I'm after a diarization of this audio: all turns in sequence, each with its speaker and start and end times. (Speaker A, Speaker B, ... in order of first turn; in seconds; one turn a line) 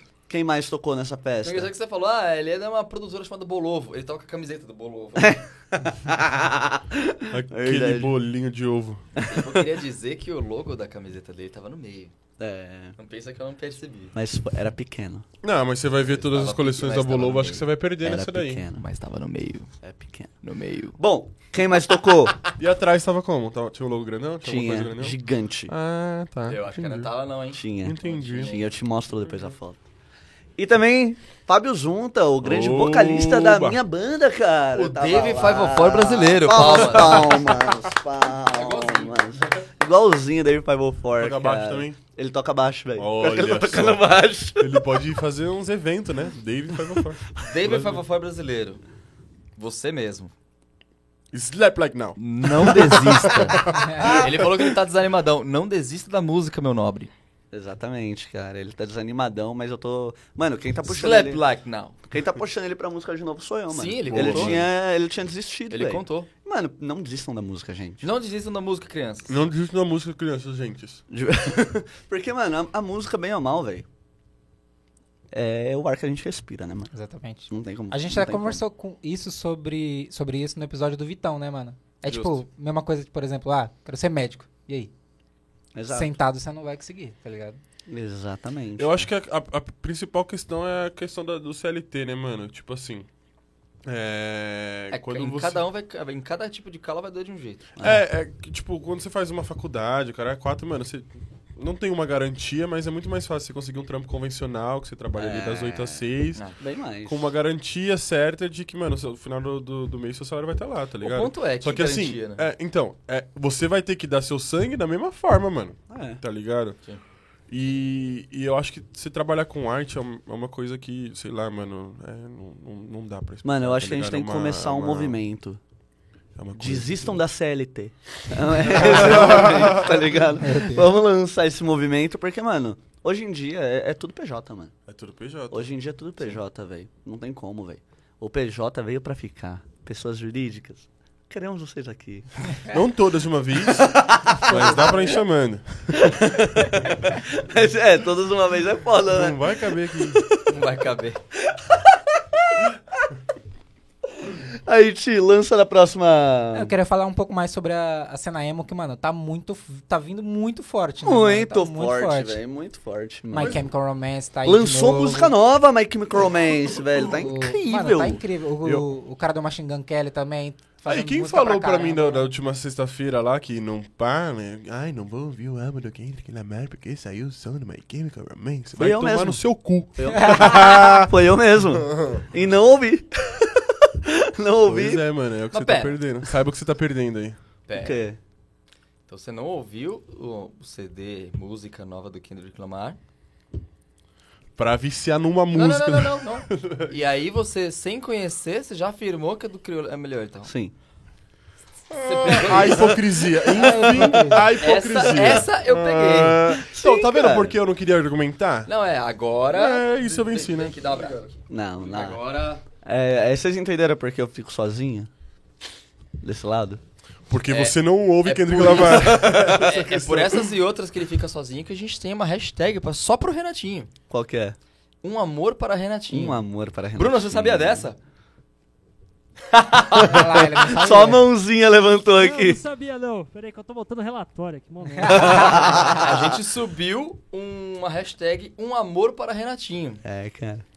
Speaker A: 0.3-1.7
Speaker B: 1.4-5.4
Speaker A: 5.1-8.1
Speaker C: 7.3-9.0
Speaker B: 9.2-12.1
Speaker A: 9.2-9.7
Speaker A: 12.4-12.9
Speaker B: 13.0-14.2
Speaker A: 14.1-15.2
Speaker C: 15.4-18.6
Speaker B: 16.1-17.7
Speaker A: 18.0-18.8
Speaker B: 18.8-19.7
Speaker A: 19.8-20.3
Speaker B: 20.4-21.0
Speaker A: 21.0-22.4
Speaker C: 22.5-25.2
Speaker A: 24.4-25.7
Speaker C: 25.7-27.1
Speaker B: 26.5-28.7
Speaker A: 27.5-29.8
Speaker C: 27.8-28.5
Speaker A: 30.6-44.8
Speaker C: 32.4-33.8
Speaker B: 34.7-37.4
Speaker C: 37.0-37.6
Speaker B: 38.5-39.2
Speaker C: 41.2-42.0
Speaker C: 43.0-48.0
Speaker B: 47.4-48.8
Speaker B: 49.6-50.3
Speaker C: 51.3-54.3
Speaker B: 52.2-57.1
Speaker A: 52.6-54.4
Speaker A: 57.5-61.4
Speaker B: 60.9-62.0
Speaker A: 62.0-68.0
Speaker B: 63.7-64.6
Speaker C: 64.1-64.7
Speaker B: 65.7-66.3
Speaker B: 68.0-69.4
Speaker C: 69.3-71.0
Speaker A: 71.1-73.9
Speaker A: 75.3-76.9
Speaker D: 76.9-84.9
Speaker A: 77.5-78.6
Speaker B: 82.1-82.4
Speaker A: 85.7-86.1
Speaker D: 85.9-87.6
Speaker A: 87.9-89.1
Speaker C: 88.8-93.1
Speaker C: 93.9-95.6
Speaker B: 94.9-97.7
Speaker A: 97.8-98.0
Speaker C: 97.8-106.4
Speaker A: 105.1-106.0
Speaker A: 106.6-107.3
Speaker C: 107.0-116.8
Speaker B: 111.0-112.5
Speaker A: 115.9-116.2
Speaker C: 117.5-125.2
Speaker A: 123.4-125.6
Speaker C: 126.4-127.2
Speaker A: 126.5-134.7
Speaker C: 128.6-130.1
Speaker D: 130.4-130.9
Speaker C: 134.9-135.7
Speaker A: 135.5-142.6
Speaker C: 142.7-146.2
Speaker A: 143.6-145.2
Speaker A: 145.9-150.6
Speaker C: 149.1-150.2
Speaker B: 150.4-151.2
Speaker A: 151.4-152.7
Speaker A: 154.2-156.7
Speaker D: 156.5-162.4
Speaker A: 161.0-163.6
Speaker D: 163.3-165.3
Speaker C: 163.4-163.6
Speaker A: 164.4-168.2
Speaker D: 167.1-172.3
Speaker C: 168.6-168.9
Speaker C: 170.9-181.1
Speaker A: 178.8-179.4
Speaker A: 179.9-185.1
Speaker D: 180.1-180.5
Speaker C: 181.7-182.2
Speaker C: 184.6-187.4
Speaker B: 185.5-186.0
Speaker B: 187.7-188.0
Speaker A: 187.7-188.2
Speaker B: 189.1-193.0
Speaker C: 194.6-196.9
Speaker B: 195.5-200.5
Speaker A: 200.4-200.7
Speaker C: 201.9-208.7
Speaker B: 201.9-203.0
Speaker A: 202.5-203.1
Speaker D: 203.5-204.5
Speaker B: 204.6-206.4
Speaker A: 206.6-207.6
Speaker B: 208.7-212.6
Speaker C: 209.5-211.1
Speaker A: 211.5-212.2
Speaker A: 212.8-215.1
Speaker A: 216.2-216.8
Speaker C: 217.3-220.5
Speaker B: 217.5-223.9
Speaker A: 218.7-219.7
Speaker A: 224.1-224.6
Speaker B: 225.0-226.4
Speaker A: 226.1-227.9
Speaker B: 226.9-228.0
Speaker A: 229.5-232.6
Speaker D: 229.9-231.2
Speaker E: 232.1-235.9
Speaker D: 234.9-235.7
Speaker A: 235.1-236.3
Speaker B: 235.2-240.0
Speaker A: 240.0-240.6